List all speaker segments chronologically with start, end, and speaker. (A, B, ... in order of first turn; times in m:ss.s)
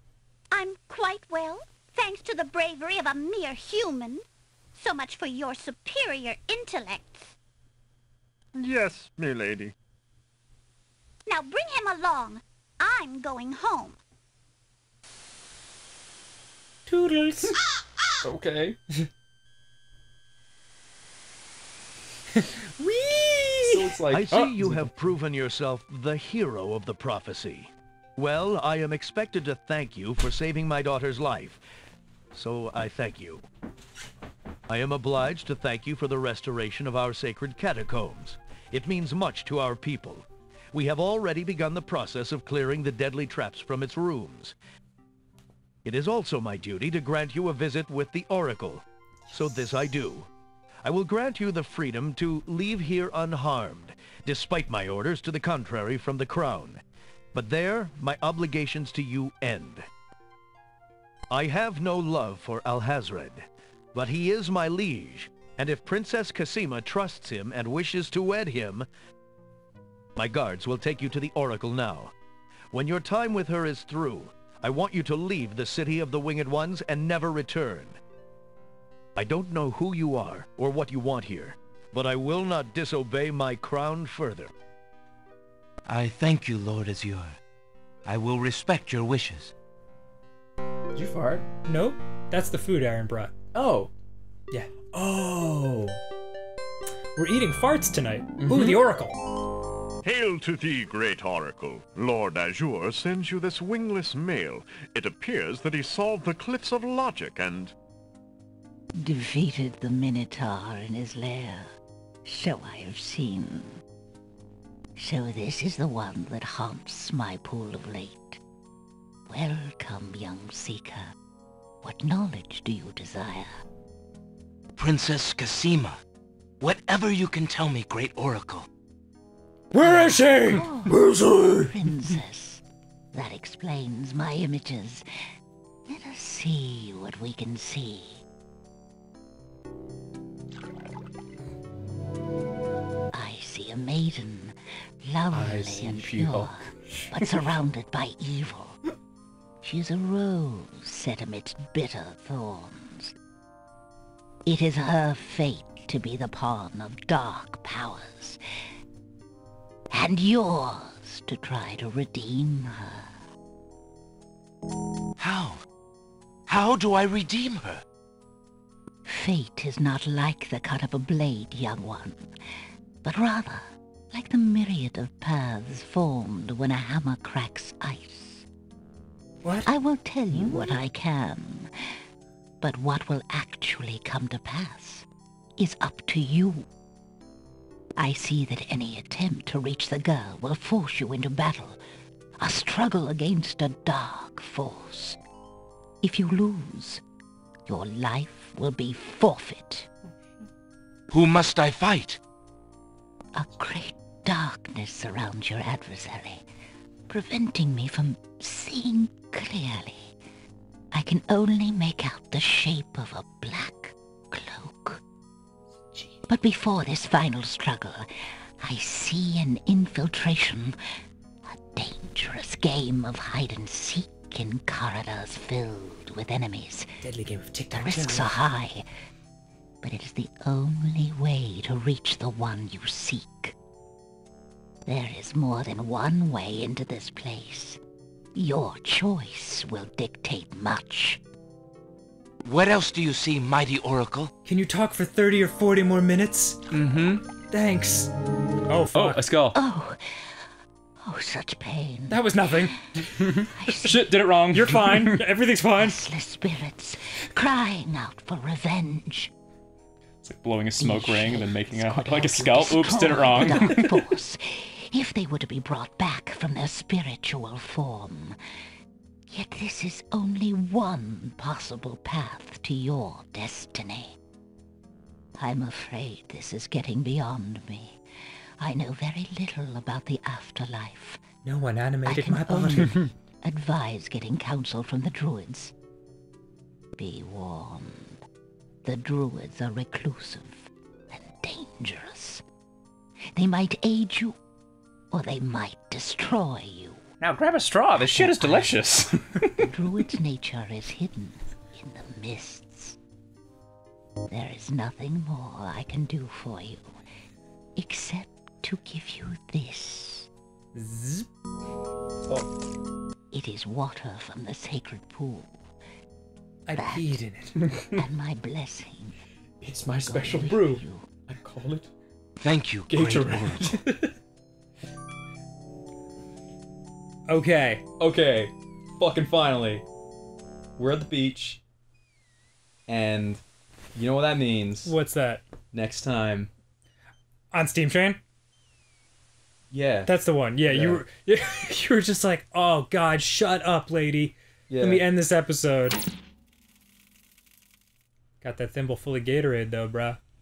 0:00.5-0:04.2 A
0:04.8-0:07.3 A
0:08.5-0:09.7 B
0:11.3-0:14.0 A
0:16.9-0:17.6 C
0:18.2-0:18.8 D
0:22.4-0:23.8 C
0:23.6-0:25.1 D
0:24.1-0:31.6 E
0:32.3-0:33.4 E
0:34.7-0:44.5 E
0:45.8-0:50.3 E
0:50.8-0:56.8 E
0:57.3-0:59.8 E
1:01.3-1:08.9 E
1:10.2-1:12.1 E
1:12.7-1:18.0 E
1:19.2-1:24.5 E
1:25.8-1:27.4 F
1:28.0-1:29.5 F
1:30.9-1:31.4 D
1:31.6-1:33.3 C
1:33.5-1:33.9 D
1:34.5-1:36.0 C
1:37.2-1:39.2 C
1:38.4-1:38.8 D
1:40.0-1:47.7 B
1:49.0-1:51.7 G
1:52.2-1:53.8 G
1:55.0-1:58.4 G
1:59.3-2:01.1 G
2:01.8-2:03.6 G
2:04.8-2:06.0 F
2:06.6-2:08.7 F
2:09.7-2:11.7 C
2:09.7-2:12.6 G
2:13.1-2:15.1 G
2:15.9-2:18.2 G
2:23.1-2:28.8 G
2:25.3-2:27.3 D
2:29.6-2:33.1 G
2:34.4-2:38.4 G
2:39.9-2:43.1 G
2:45.2-2:45.6 F
2:46.5-2:47.8 F
2:49.0-2:52.3 G
2:53.0-2:58.4 G
2:59.4-2:59.7 C
2:59.6-3:01.7 G
3:02.6-3:05.0 G
3:05.6-3:06.6 G
3:08.0-3:11.8 G
3:12.4-3:15.2 G
3:16.0-3:17.0 G
3:17.7-3:19.9 G
3:21.1-3:22.2 F
3:23.3-3:26.4 G
3:27.1-3:30.1 G
3:30.9-3:35.0 G
3:36.3-3:40.8 G
3:41.4-3:46.9 G
3:47.0-3:48.4 C
3:47.7-3:48.8 G
3:49.8-3:53.5 G
3:54.8-3:57.8 G
3:58.3-4:01.2 G
4:02.4-4:04.3 F
4:04.4-4:06.6 C
4:06.7-4:07.2 D
4:07.5-4:08.1 C
4:08.7-4:09.2 C
4:08.9-4:09.6 D
4:09.5-4:10.4 G
4:11.0-4:12.7 G
4:12.1-4:13.7 C
4:13.4-4:15.2 D
4:13.6-4:13.9 G
4:14.5-4:16.0 C
4:15.8-4:19.3 G
4:20.2-4:24.1 D
4:20.8-4:28.4 G
4:29.3-4:34.2 G
4:35.4-4:38.0 G
4:38.6-4:41.2 G
4:41.4-4:43.1 C
4:42.0-4:45.7 G
4:47.0-4:48.2 G
4:48.8-4:52.4 G
4:53.3-4:54.4 G
4:55.1-4:57.0 G
4:57.2-4:59.7 D
4:57.9-4:58.8 G
4:59.6-5:03.0 G
5:04.3-5:07.0 G
5:07.8-5:10.3 G
5:10.7-5:11.3 C
5:13.3-5:15.6 G
5:16.6-5:17.6 C
5:16.7-5:17.2 G
5:17.9-5:19.2 G
5:19.6-5:21.9 D
5:20.0-5:21.1 G
5:22.4-5:23.7 F
5:22.9-5:23.8 D
5:23.8-5:24.1 C
5:27.3-5:27.8 C
5:28.0-5:29.8 D
5:30.8-5:31.6 D
5:32.9-5:33.4 D
5:33.9-5:34.9 D
5:34.8-5:35.4 C
5:35.7-5:36.5 D
5:37.5-5:38.2 C
5:39.7-5:41.0 D
5:40.0-5:46.0 C
5:44.7-5:45.0 D
5:48.4-5:50.2 C